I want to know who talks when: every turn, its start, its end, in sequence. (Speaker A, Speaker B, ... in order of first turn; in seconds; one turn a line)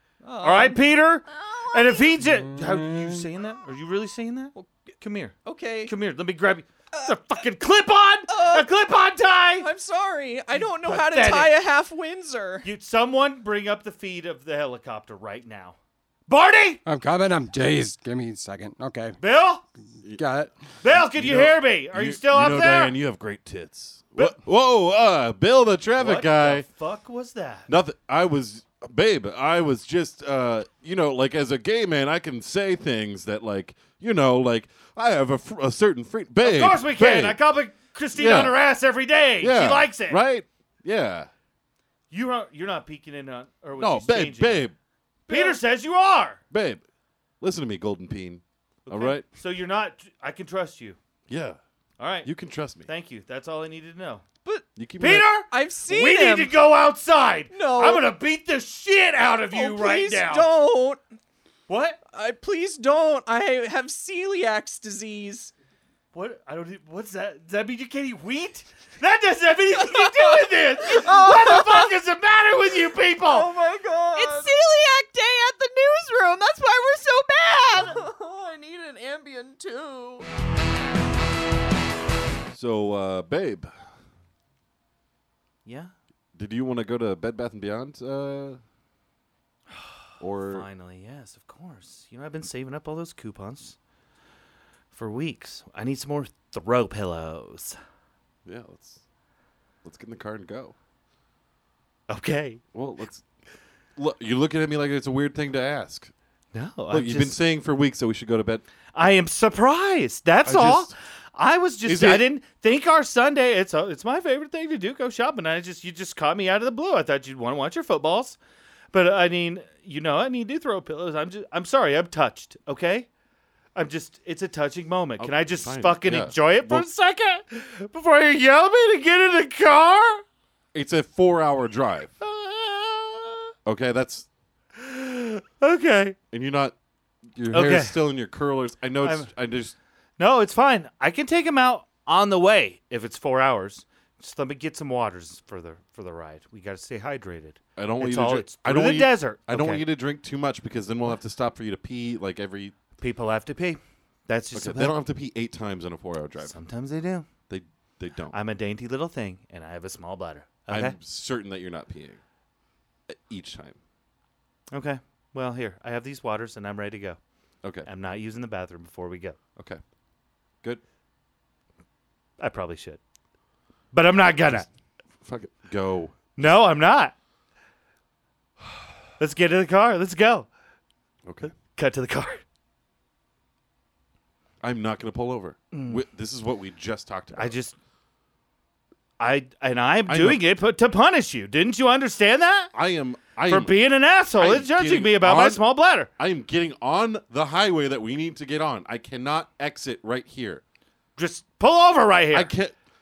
Speaker A: 0.2-0.8
Speaker B: 0.4-9.7
Speaker C: 1.4-2.1
Speaker D: 2.3-3.2
Speaker A: 5.4-5.9
Speaker A: 8.3-8.7
Speaker A: 9.6-12.7
Speaker B: 10.6-11.5
Speaker B: 12.6-16.8
Speaker D: 16.8-19.2
Speaker B: 19.2-19.6
Speaker D: 20.0-20.5
Speaker B: 20.8-23.0
Speaker E: 21.1-26.6
Speaker B: 26.0-27.7
Speaker E: 27.7-37.4
Speaker B: 36.4-40.2
Speaker E: 38.2-38.6
Speaker E: 39.4-41.3
Speaker B: 42.1-44.6
Speaker E: 43.8-44.7
Speaker B: 45.3-46.4
Speaker E: 46.5-46.8
Speaker E: 47.4-49.2
Speaker B: 48.9-51.0
Speaker E: 51.3-51.6
Speaker B: 52.0-52.3
Speaker E: 52.2-52.9
Speaker B: 52.9-54.2
Speaker E: 54.8-55.3
Speaker B: 55.0-60.5
Speaker A: 55.5-56.5
Speaker A: 57.5-58.1
Speaker A: 59.5-61.0
Speaker B: 61.7-62.0
Speaker A: 62.1-65.5
Speaker B: 66.1-73.5
Speaker A: 69.9-70.3
Speaker A: 70.8-71.8
Speaker A: 73.2-74.5
Speaker C: 74.1-78.1
Speaker A: 77.8-80.2
Speaker E: 82.5-83.7
Speaker B: 85.6-85.9
Speaker E: 86.3-88.6
Speaker E: 90.2-90.7
Speaker B: 90.5-93.8
Speaker B: 94.9-97.8
Speaker E: 98.5-99.0
Speaker E: 99.8-100.7
Speaker B: 102.1-102.6
Speaker E: 102.7-103.2
Speaker E: 104.0-106.1
Speaker B: 106.5-107.4
Speaker E: 106.9-108.6
Speaker B: 108.9-118.4
Speaker E: 110.4-110.9
Speaker E: 111.8-112.2
Speaker B: 118.9-123.1
Speaker B: 123.7-130.2
Speaker E: 125.2-126.9
Speaker E: 130.7-132.1
Speaker B: 132.2-133.5
Speaker E: 133.7-134.2
Speaker B: 134.8-136.2
Speaker E: 136.3-136.7
Speaker E: 137.3-139.7
Speaker B: 137.5-138.0
Speaker B: 139.0-139.3
Speaker B: 140.2-149.8
Speaker E: 147.8-152.7
Speaker B: 153.0-155.0
Speaker E: 154.5-156.6
Speaker B: 156.4-157.3
Speaker E: 157.5-158.3
Speaker B: 158.3-161.0
Speaker E: 160.7-162.2
Speaker E: 163.1-163.8
Speaker B: 164.7-167.2
Speaker E: 167.6-167.9
Speaker B: 167.8-169.4
Speaker B: 172.4-173.0
Speaker B: 173.9-174.7
Speaker E: 175.2-176.1
Speaker B: 176.3-177.1
Speaker B: 179.2-180.5
Speaker E: 181.2-181.5
Speaker B: 181.5-182.4
Speaker E: 184.6-187.6
Speaker B: 185.7-186.0
Speaker B: 187.3-187.7
Speaker B: 189.2-192.7
Speaker E: 190.1-190.4
Speaker E: 192.7-193.8
Speaker B: 193.5-196.1
Speaker E: 194.4-200.6
Speaker B: 201.2-202.5
Speaker E: 202.3-202.7